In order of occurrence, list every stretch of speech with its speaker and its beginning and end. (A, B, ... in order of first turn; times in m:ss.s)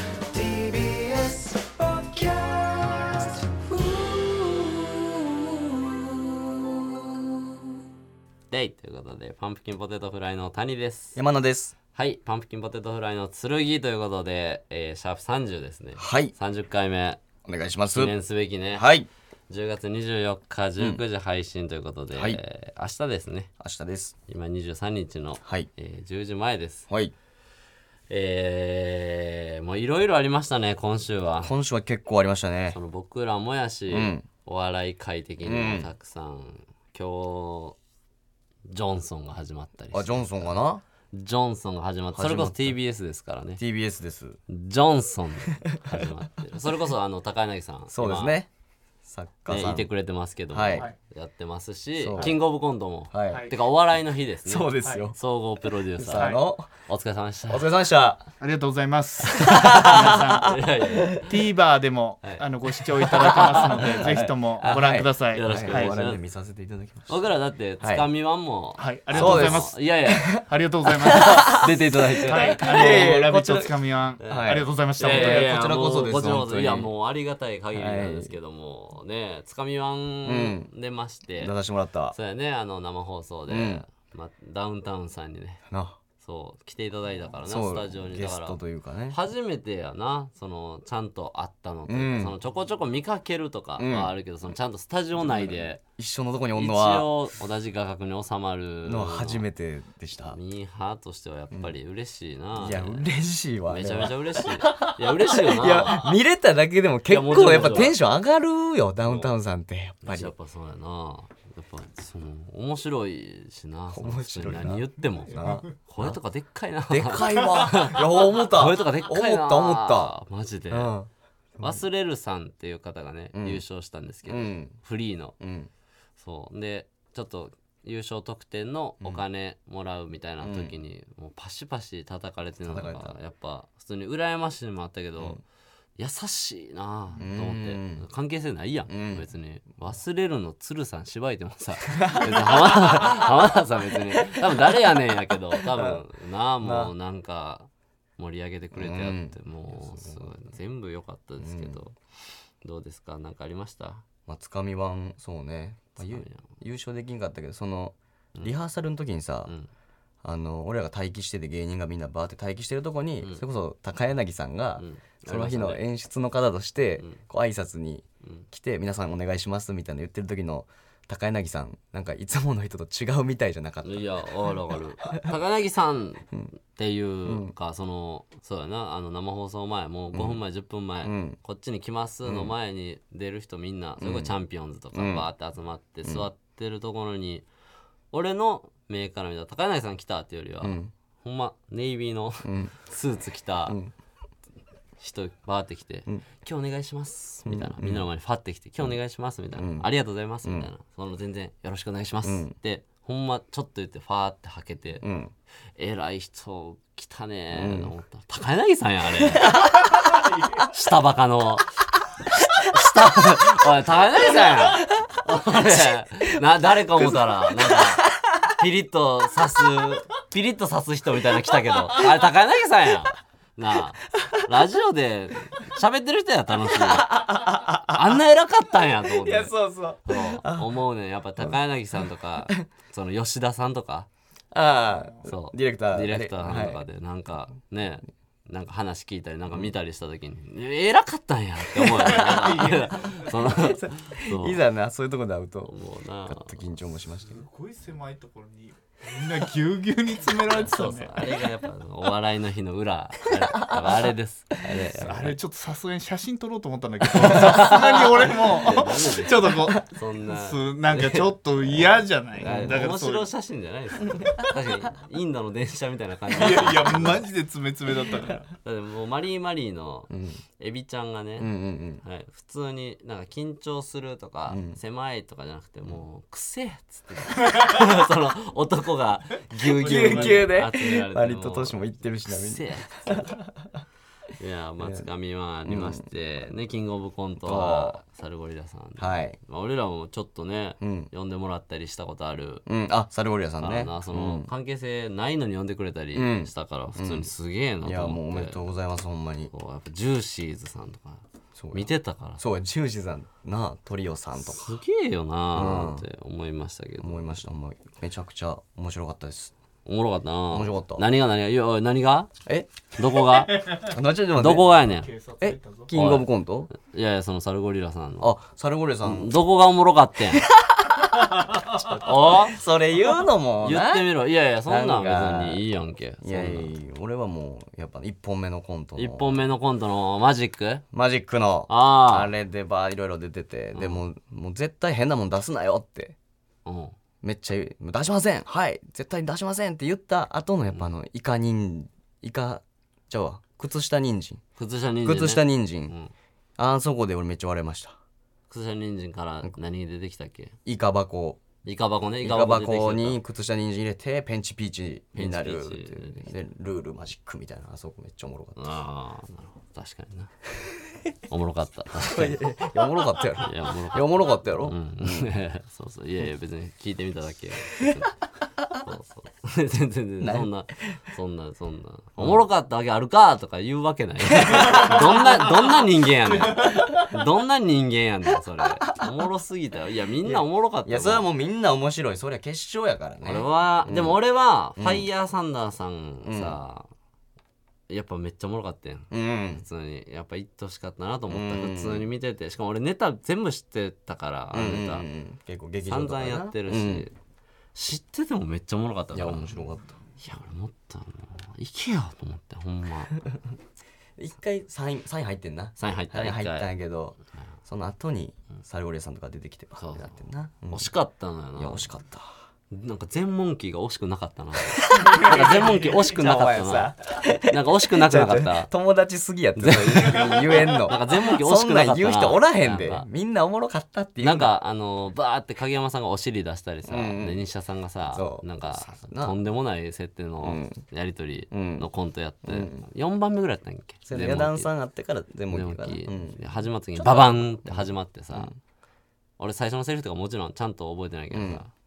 0:00.3-0:07.4 A
0:08.5-0:11.2 B
0:11.2-0:11.8 A
0:12.0-0:17.2 B
0:16.0-0:16.3 A
0:17.4-0:18.2 A
0:17.9-0:18.9 B
0:18.7-0:19.1 A
0:19.5-0:23.5 B
0:22.1-0:22.4 A
0:23.6-0:24.1 A
0:24.3-0:26.9 B
0:25.4-0:25.7 A
0:28.1-0:31.5 B
0:31.4-0:32.8 A
0:32.7-0:37.8 B
0:33.9-0:34.3 A
0:35.4-0:35.9 A
0:38.7-0:40.2 B
0:39.9-0:40.8 A
0:41.1-0:43.6 B
0:42.1-0:42.8 A
0:43.6-0:44.4 A
0:44.5-0:48.3 B
0:45.6-0:46.1 A
0:47.9-0:48.5 A
0:49.0-0:49.9 A
0:49.5-0:56.3 B
0:50.5-0:50.9 A
0:52.0-0:52.4 A
0:53.1-0:53.5 A
0:53.3-0:53.6 C
0:54.4-0:55.2 A
0:54.8-0:55.1 C
0:56.0-0:56.7 A
0:56.2-0:56.4 C
0:56.9-0:57.7 B
0:57.5-0:58.3 A
0:58.4-1:00.6 C
0:59.3-1:00.5 A
0:59.5-1:01.3 B
1:01.2-1:05.9 C
1:03.0-1:04.0 B
1:03.1-1:07.2 A
1:04.6-1:06.2 B
1:07.1-1:10.3 B
1:07.8-1:08.1 A
1:08.8-1:11.7 C
1:09.1-1:16.9 A
1:11.0-1:13.2 B
1:12.3-1:15.6 C
1:14.2-1:21.5 B
1:17.7-1:18.3 A
1:20.2-1:20.7 A
1:21.4-1:22.2 A
1:22.1-1:25.6 B
1:23.5-1:23.8 A
1:25.7-1:26.0 A
1:26.2-1:28.6 B
1:27.4-1:29.2 A
1:29.1-1:35.8 B
1:31.9-1:32.4 A
1:33.8-1:34.1 A
1:35.2-1:37.1 A
1:36.6-1:39.5 B
1:38.8-1:40.4 A
1:40.3-1:43.1 B
1:42.6-1:50.3 A
1:43.7-1:46.1 B
1:47.1-1:48.0 B
1:49.0-1:49.3 B
1:50.0-2:01.0 B
1:53.9-1:56.2 A
1:56.9-2:00.1 A
2:00.7-2:01.8 A
2:01.6-2:05.4 B
2:03.3-2:03.6 A
2:04.3-2:04.8 A
2:05.4-2:05.7 A
2:06.2-2:15.4 B
2:10.4-2:10.8 A
2:12.6-2:13.1 A
2:15.2-2:15.4 A
2:16.0-2:32.0 B
2:17.2-2:18.0 A
2:18.9-2:19.3 A
2:21.9-2:23.4 A
2:24.0-2:24.8 A
2:25.5-2:26.0 A
2:26.6-2:26.9 A
2:28.7-2:30.5 A
2:31.4-2:31.8 A
2:32.6-2:34.0 B
2:34.3-2:39.5 A
2:36.0-2:36.5 B
2:40.2-2:54.3 A
2:44.8-2:45.8 B
2:53.8-3:07.5 B
2:55.0-2:55.4 A
2:57.2-2:57.5 A
3:00.1-3:00.4 A
3:01.0-3:01.4 A
3:02.2-3:02.5 A
3:04.0-3:04.4 A
3:04.9-3:05.3 A
3:06.0-3:06.3 A
3:08.1-3:13.8 B
3:10.6-3:10.9 A
3:12.4-3:12.8 A
3:13.7-3:13.9 A
3:15.0-3:25.0 B
3:17.4-3:18.0 A
3:19.6-3:19.9 A
3:20.4-3:20.7 A
3:22.2-3:22.6 A
3:25.0-3:25.3 A
3:25.8-3:31.7 B
3:27.5-3:27.9 A
3:32.6-3:49.5 B
3:36.3-3:38.1 A
3:46.8-3:48.2 A
3:49.0-3:50.7 A
3:50.1-3:54.1 B
3:54.5-3:56.8 A
3:55.2-4:04.6 B
4:01.8-4:02.7 A
4:02.0-4:03.3 C
4:03.4-4:05.7 A
4:05.7-4:06.6 B
4:06.2-4:07.4 A
4:07.3-4:11.4 C
4:10.5-4:15.3 B
4:14.9-4:23.3 C
4:17.3-4:27.2 B
4:22.4-4:22.8 A
4:26.3-4:28.5 C
4:28.6-4:43.3 B
4:30.1-4:30.4 A
4:31.4-4:32.0 A
4:34.5-4:34.8 A
4:39.6-4:40.5 C
4:39.8-4:43.5 A
4:44.4-4:52.6 B
4:44.8-4:45.1 A
4:45.7-4:46.0 A
4:47.4-4:48.0 A
4:49.0-4:49.4 A
4:50.8-4:51.1 A
4:52.7-4:54.5 A
4:53.6-4:58.6 B
4:56.1-4:57.3 A
4:57.8-4:59.5 A
4:59.5-5:02.4 B
5:01.6-5:04.8 A
5:04.4-5:07.4 B
5:05.5-5:06.0 A
5:07.0-5:09.5 A
5:09.9-5:12.3 B
5:10.5-5:11.1 A
5:12.5-5:12.7 A
5:13.0-5:13.8 B
5:13.5-5:13.9 C
5:13.7-5:14.7 A
5:14.4-5:15.1 B
5:14.8-5:15.9 C
5:15.4-5:16.7 A
5:15.9-5:18.4 B
5:18.2-5:19.3 A
5:19.0-5:20.5 B
5:20.3-5:24.1 A
5:22.0-5:22.6 B
5:23.6-5:26.7 B
5:24.7-5:25.6 A
5:26.2-5:29.5 A
5:29.0-5:30.8 B
5:30.9-5:36.2 A
5:31.7-5:32.3 B
5:33.7-5:34.0 B
5:36.6-5:37.0 B
5:37.2-5:44.4 A
5:44.6-5:46.1 B
5:45.0-5:46.0 A
5:46.6-5:48.0 A
5:48.5-5:50.6 B
5:50.6-5:51.4 A
5:51.6-5:53.2 B
5:52.2-5:58.7 A
5:55.1-5:56.3 B
5:58.6-6:00.3 B
6:01.3-6:02.5 B
6:02.0-6:05.3 A
6:03.4-6:08.1 B
6:08.7-6:21.3 B
6:10.2-6:11.0 A
6:12.2-6:12.4 A
6:14.4-6:15.5 A
6:16.5-6:17.1 A
6:20.2-6:24.2 A
6:23.2-6:26.9 B
6:24.8-6:25.1 A
6:26.2-6:26.6 A
6:27.9-6:35.1 B
6:29.1-6:29.6 A
6:31.3-6:32.1 A
6:34.5-6:37.1 A
6:35.8-6:37.1 B
6:37.8-6:39.5 B
6:39.1-6:39.9 A
6:40.2-6:43.2 B
6:44.2-6:50.9 A
6:45.8-6:46.7 B
6:49.8-6:50.1 B
6:50.7-6:51.8 B
6:51.6-6:52.3 A
6:52.7-6:56.9 B
6:54.6-7:04.5 A
6:57.5-6:58.7 B
6:59.6-7:03.1 B
7:04.2-7:14.7 B
7:06.9-7:07.4 A
7:08.1-7:09.4 A
7:10.4-7:10.8 A
7:11.5-7:11.9 A
7:12.4-7:12.8 A
7:14.1-7:16.4 A
7:15.5-7:18.5 B
7:17.0-7:18.6 A
7:19.4-7:21.7 B
7:21.3-7:21.6 A